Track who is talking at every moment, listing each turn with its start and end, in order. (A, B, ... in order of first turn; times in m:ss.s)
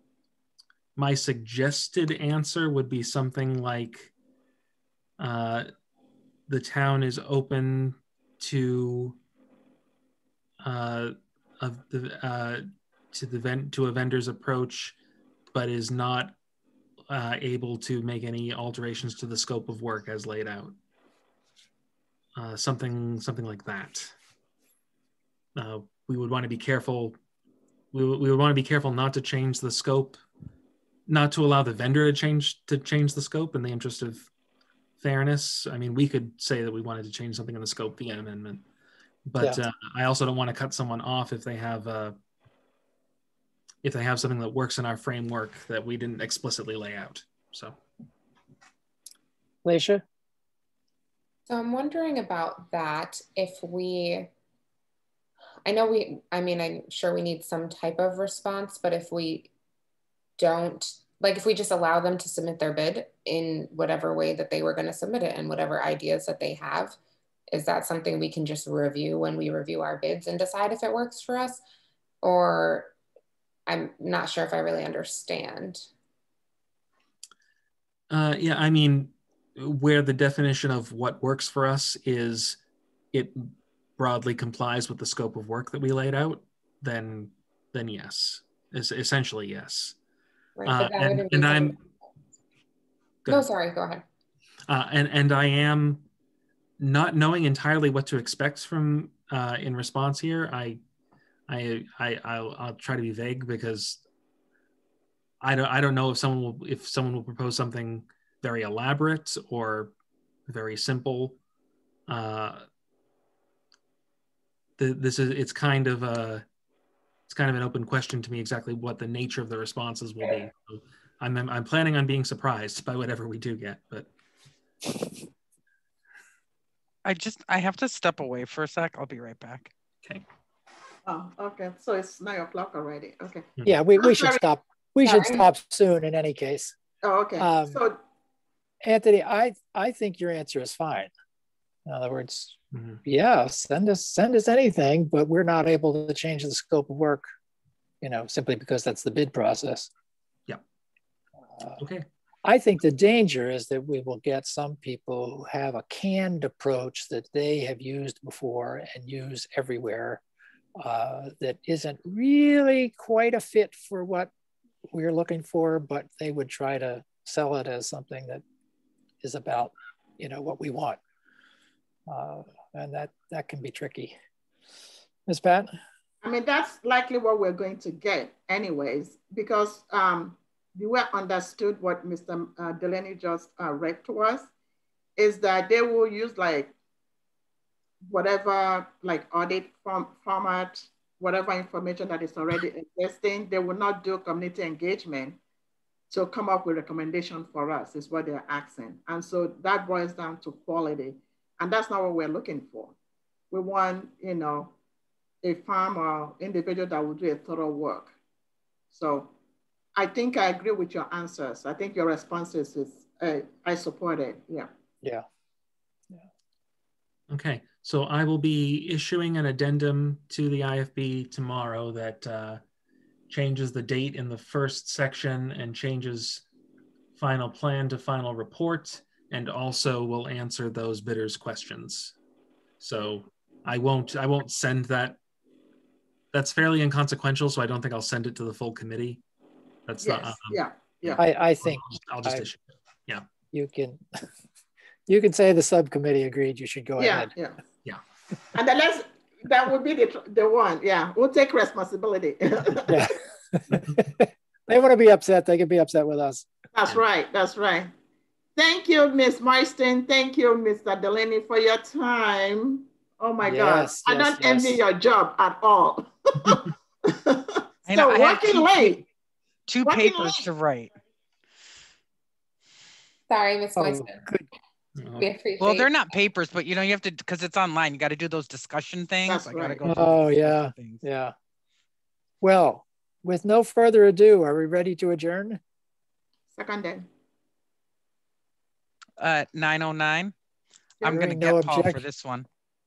0:01.0-0:04.1 A
0:05.2-0:05.7 A
0:06.5-0:09.2 A
0:10.6-0:15.0 A
0:15.5-0:16.3 A
0:17.1-0:20.7 A
0:22.3-0:24.1 A
0:25.6-0:27.2 A
0:27.9-0:30.2 A
0:31.1-0:34.3 A
0:35.0-0:38.6 A
0:39.2-0:42.1 A
0:43.8-0:47.8 A
0:49.6-0:50.0 B
0:51.5-0:54.3 C
0:55.6-0:59.5 C
1:00.4-1:07.0 C
1:07.5-1:11.6 C
1:12.2-1:12.9 C
1:13.7-1:15.9 C
1:18.1-1:22.6 A
1:23.1-1:30.0 A
1:30.6-1:31.8 C
1:30.6-1:31.8 A
1:33.3-1:34.0 C
1:34.7-1:36.0 A
1:36.8-1:40.8 A
1:41.5-1:44.0 A
1:45.4-1:49.9 A
1:50.5-1:51.4 A
1:52.1-1:52.6 A
1:54.8-1:56.4 A
1:57.3-2:04.1 A
2:07.0-2:09.7 D
2:11.0-2:14.4 E
2:13.6-2:16.7 B
2:15.0-2:15.4 C
2:17.0-2:18.0 E
2:17.4-2:17.8 B
2:18.8-2:21.1 B
2:21.8-2:27.3 B
2:22.7-2:23.0 A
2:28.0-2:29.9 B
2:31.6-2:31.8 B
2:31.8-2:32.0 A
2:32.4-2:40.2 B
2:40.8-2:44.3 B
2:44.9-2:48.4 B
2:49.2-2:51.0 B
2:52.1-2:54.2 B
2:55.3-2:55.7 B
2:56.2-3:04.5 E
3:05.2-3:06.8 E
3:08.0-3:15.4 E
3:16.1-3:22.9 E
3:23.5-3:24.7 E
3:25.4-3:28.1 E
3:28.9-3:29.3 E
3:30.0-3:34.7 E
3:37.3-3:42.6 A
3:43.3-3:46.4 A
3:47.2-3:52.2 A
3:52.8-3:55.2 A
3:56.3-3:59.2 A
3:59.9-4:03.2 A
4:00.0-4:01.2 E
4:01.2-4:02.4 B
4:03.5-4:04.3 B
4:05.1-4:07.3 B
4:07.0-4:07.6 E
4:08.5-4:13.0 E
4:12.9-4:16.5 B
4:16.7-4:17.9 E
4:18.6-4:29.0 E
4:23.4-4:24.8 B
4:27.9-4:29.0 D
4:29.7-4:30.9 D
4:29.8-4:30.4 E
4:33.3-4:34.2 C
4:33.8-4:34.5 B
4:35.0-4:35.3 A
4:35.2-4:35.9 C
4:35.6-4:41.0 D
4:39.3-4:39.9 E
4:39.8-4:41.3 B
4:42.4-4:45.6 B
4:46.5-4:47.1 E
4:49.2-4:50.3 D
4:51.0-4:52.5 D
4:51.0-4:52.0 B